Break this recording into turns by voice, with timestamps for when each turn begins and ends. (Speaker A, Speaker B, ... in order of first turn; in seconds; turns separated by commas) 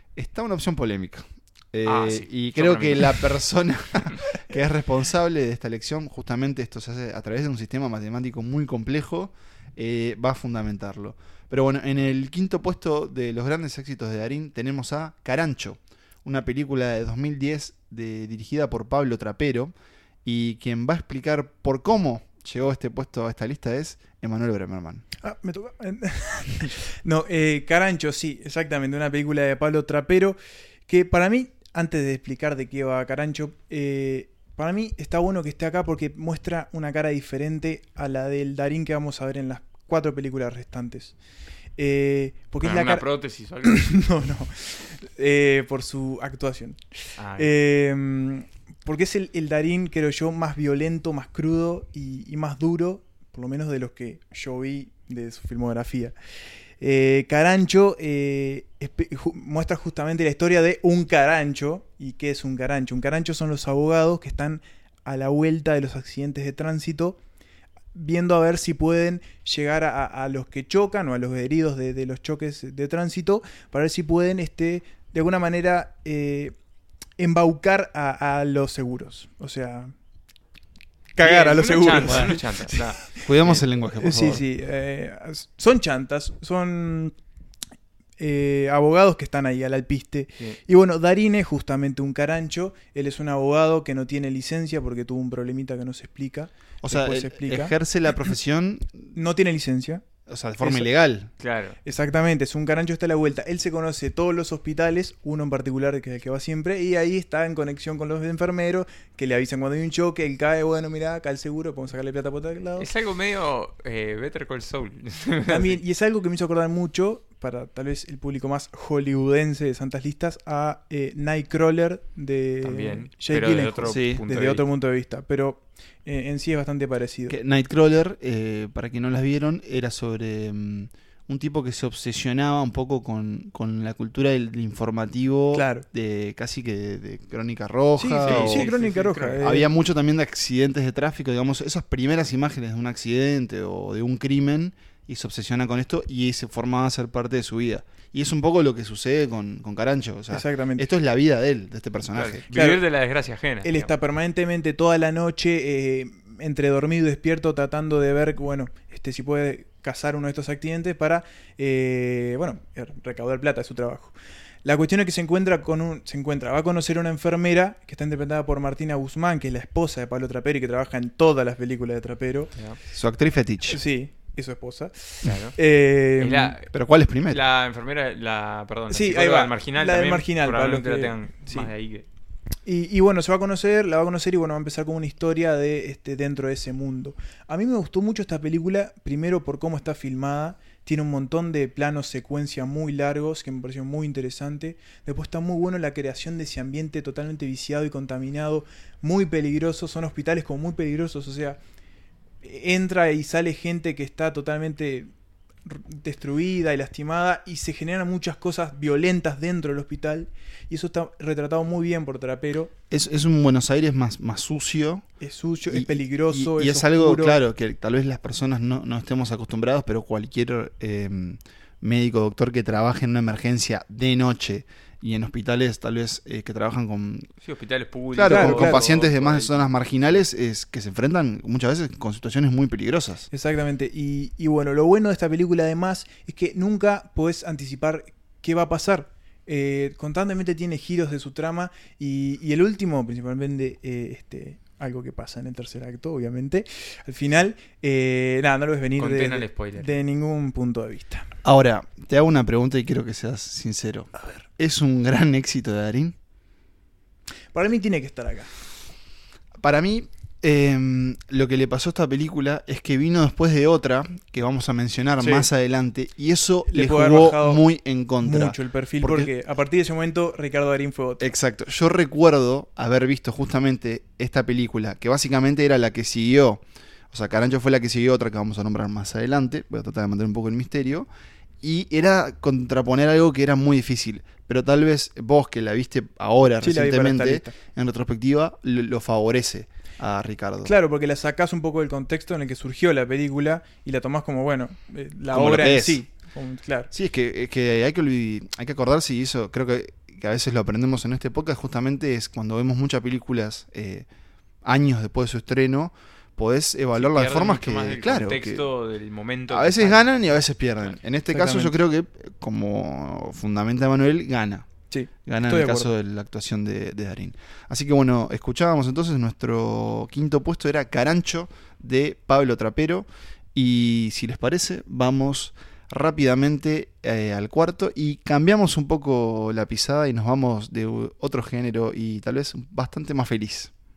Speaker A: 0.2-19.7, Speaker B: 1.8-3.2, Speaker A: 20.2-25.1, Speaker C: 25.2-41.1, Speaker C: 41.8-43.1, Speaker B: 42.6-43.9, Speaker C: 43.6-56.1, Speaker B: 47.2-47.6, Speaker C: 56.8-67.2, Speaker C: 67.9-76.5, Speaker C: 77.2-79.9, Speaker C: 81.2-82.8, Speaker B: 81.2-83.6, Speaker A: 82.1-82.4, Speaker A: 83.2-84.4, Speaker C: 84.0-87.1, Speaker C: 88.2-97.8, Speaker A: 96.8-99.2, Speaker C: 99.2-100.0, Speaker A: 100.3-101.3, Speaker C: 100.6-100.9, Speaker B: 101.4-101.8, Speaker C: 101.8-112.9, Speaker B: 112.8-115.8, Speaker C: 115.5-127.4, Speaker B: 122.6-124.6, Speaker A: 123.9-124.2, Speaker A: 127.3-138.7, Speaker C: 135.5-135.8, Speaker C: 138.0-139.7, Speaker B: 138.2-139.5, Speaker A: 139.4-152.4, Speaker C: 150.3-150.9, Speaker B: 152.1-153.9, Speaker C: 152.5-152.8, Speaker C: 153.6-172.5, Speaker A: 172.9-173.8, Speaker C: 173.7-176.6, Speaker B: 175.2-175.6, Speaker B: 176.2-176.7, Speaker A: 176.7-177.4, Speaker B: 177.3-182.1, Speaker C: 178.9-181.7, Speaker C: 182.7-201.6, Speaker C: 202.4-205.1, Speaker C: 205.7-212.7, Speaker A: 212.9-215.1, Speaker C: 215.2-217.4, Speaker A: 215.7-227.3, Speaker B: 227.4-229.7, Speaker A: 228.2-233.3, Speaker C: 228.3-228.8, Speaker C: 233.3-251.3, Speaker B: 249.0-249.9, Speaker A: 251.4-256.2, Speaker C: 257.5-258.5, Speaker A: 259.6-269.3, Speaker C: 265.2-265.5, Speaker C: 266.7-267.6, Speaker C: 268.2-271.2, Speaker A: 271.2-281.1, Speaker A: 281.6-290.7, Speaker C: 286.6-287.5, Speaker C: 290.6-296.9, Speaker A: 295.3-296.1, Speaker A: 296.9-304.1, Speaker A: 304.6-308.7, Speaker B: 307.0-310.1, Speaker A: 309.5-314.7, Speaker C: 311.3-311.7, Speaker C: 314.9-315.9, Speaker A: 315.3-333.7